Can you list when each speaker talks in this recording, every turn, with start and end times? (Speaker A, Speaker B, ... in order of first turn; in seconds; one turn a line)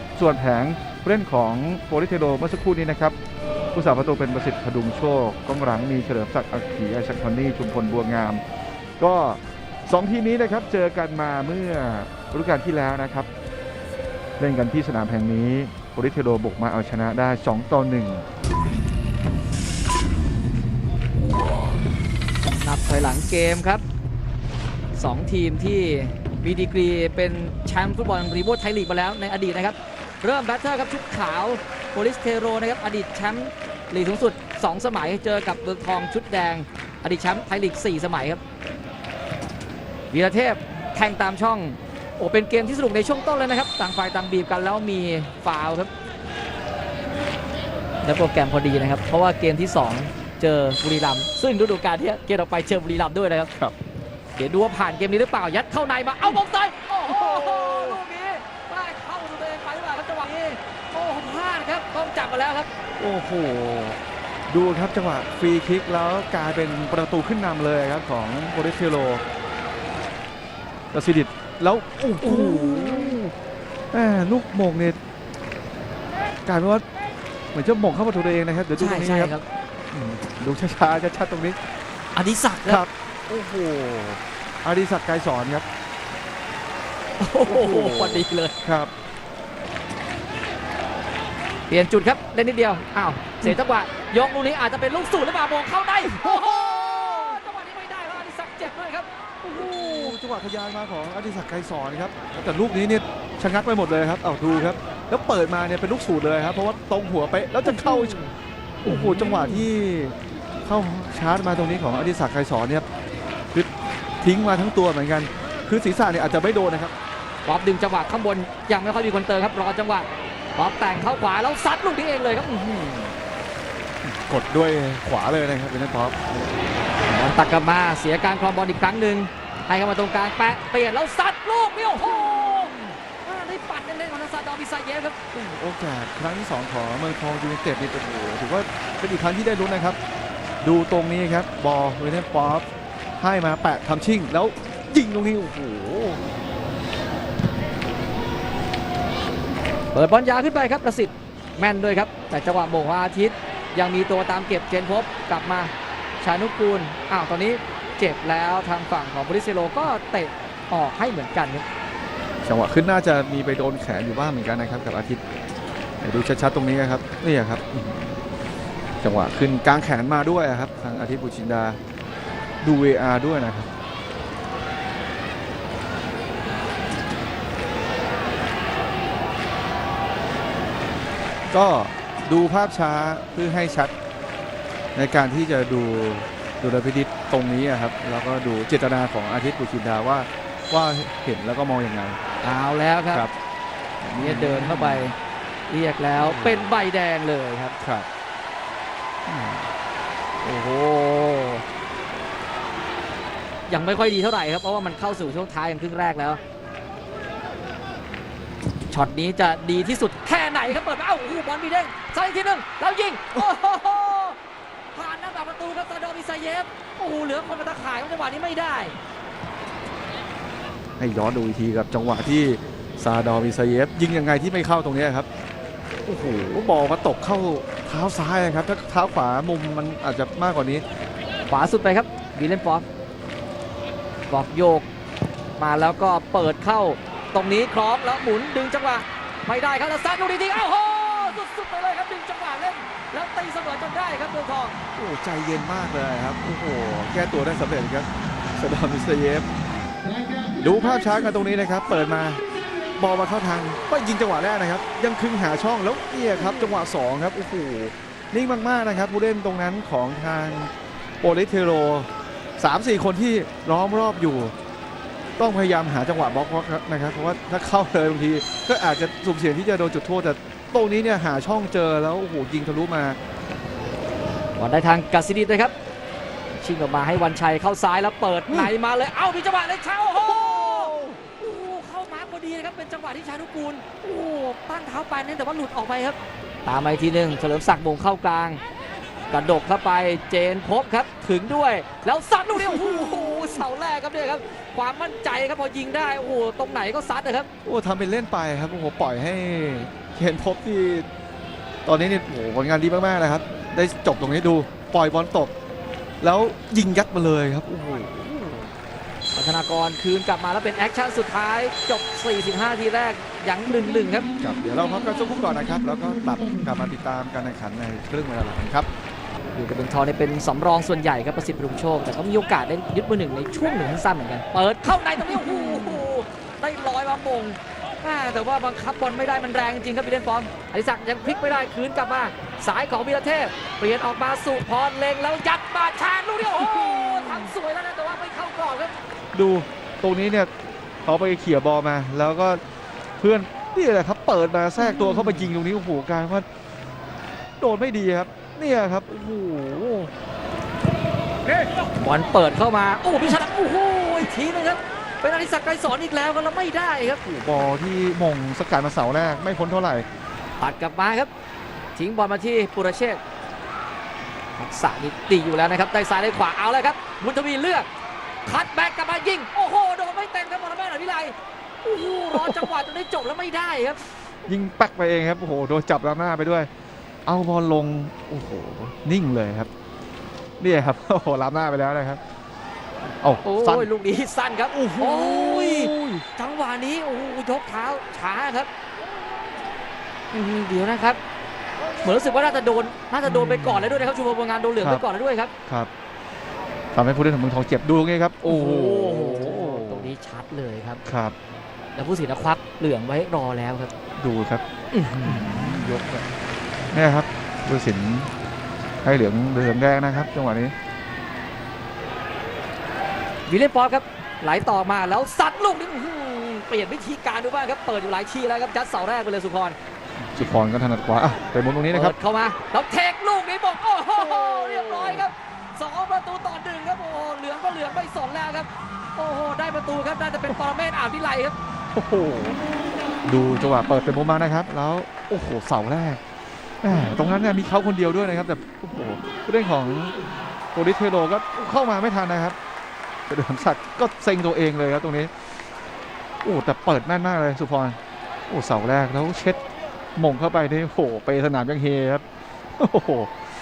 Speaker A: 0.1-3.1
Speaker A: 3.7-8.4
Speaker A: 9.0-13.3
Speaker A: 14.4-18.2
Speaker B: 22.6-23.8
Speaker B: 24.9-38.4
Speaker B: 40.1-45.9
Speaker B: 48.0-53.5
Speaker B: 54.4-62.7
Speaker A: 57.0-58.0
Speaker A: 63.0-64.0
Speaker A: 64.5-69.2
Speaker A: 70.9-73.3
Speaker B: 72.2-73.2
Speaker A: 73.9-75.0
Speaker A: 76.5-76.8
Speaker A: 77.5-79.3
Speaker B: 78.8-79.4
Speaker A: 79.9-81.6
Speaker B: 82.1-82.8
Speaker A: 82.7-85.7
Speaker B: 87.2-88.5
Speaker A: 87.5-88.9
Speaker B: 91.7-100.2
Speaker A: 99.5-108.2
Speaker B: 107.6-108.3
Speaker B: 108.8-109.7
Speaker A: 108.8-112.8
Speaker A: 114.2-116.9
Speaker B: 117.4-123.1
Speaker A: 124.0-126.6
Speaker B: 127.0-135.2
Speaker A: 132.0-132.9
Speaker A: 135.3-140.0
Speaker A: 140.6-142.6
Speaker A: 143.2-146.2
Speaker B: 149.9-161.6
Speaker A: 162.4-165.2
Speaker A: 166.0-168.2
Speaker A: 169.0-171.8
Speaker A: 172.6-173.7
Speaker A: 181.5-183.9
Speaker A: 184.9-192.2
Speaker B: 192.4-193.3
Speaker A: 194.0-195.1
Speaker B: 194.1-195.2
Speaker B: 195.7-197.8
Speaker A: 196.1-196.8
Speaker A: 197.8-198.1
Speaker A: 199.3-199.7
Speaker B: 200.4-201.6
Speaker B: 203.7-206.4
Speaker B: 208.9-214.4
Speaker B: 214.9-219.0
Speaker A: 221.0-225.3
Speaker A: 226.1-230.8
Speaker B: 231.5-232.8
Speaker B: 234.3-234.8
Speaker B: 235.6-244.7
Speaker A: 244.9-249.5
Speaker A: 250.6-252.4
Speaker A: 252.9-264.5
Speaker A: 265.4-273.2
Speaker B: 274.6-275.7
Speaker B: 276.6-288.6
Speaker A: 280.2-281.2
Speaker B: 289.3-297.5
Speaker A: 292.5-293.6
Speaker A: 297.6-301.1
Speaker A: 301.8-305.5
Speaker A: 306.2-308.7
Speaker B: 309.3-314.3
Speaker A: 314.4-318.9
Speaker B: 319.5-338.9
Speaker A: 336.5-337.5
Speaker A: 339.3-340.5
Speaker A: 341.0-342.6
Speaker A: 343.2-346.4
Speaker B: 344.8-345.5
Speaker A: 347.6-350.1
Speaker B: 352.0-357.2
Speaker A: 357.2-360.1
Speaker B: 360.6-361.3
Speaker B: 361.9-363.2
Speaker B: 364.6-367.9
Speaker B: 368.4-374.0
Speaker A: 372.3-372.7
Speaker A: 374.4-376.7
Speaker A: 377.2-379.7
Speaker A: 380.6-382.2
Speaker A: 383.2-383.9
Speaker B: 383.4-388.7
Speaker A: 384.7-386.2
Speaker B: 390.3-391.2
Speaker B: 392.0-395.5
Speaker A: 393.3-393.6
Speaker A: 396.9-400.1
Speaker B: 398.4-401.0
Speaker A: 401.1-401.3
Speaker B: 401.9-403.9
Speaker A: 404.2-406.2
Speaker B: 404.9-405.8
Speaker A: 406.9-408.3
Speaker A: 409.0-410.7
Speaker B: 413.5-419.8
Speaker A: 420.3-422.1
Speaker B: 421.9-431.6
Speaker A: 424.1-425.3
Speaker A: 431.9-432.6
Speaker A: 433.2-436.2
Speaker A: 436.8-440.1
Speaker A: 440.7-442.6
Speaker A: 443.3-445.3
Speaker A: 446.4-448.0
Speaker A: 448.5-449.6
Speaker A: 450.1-452.2
Speaker A: 452.8-453.3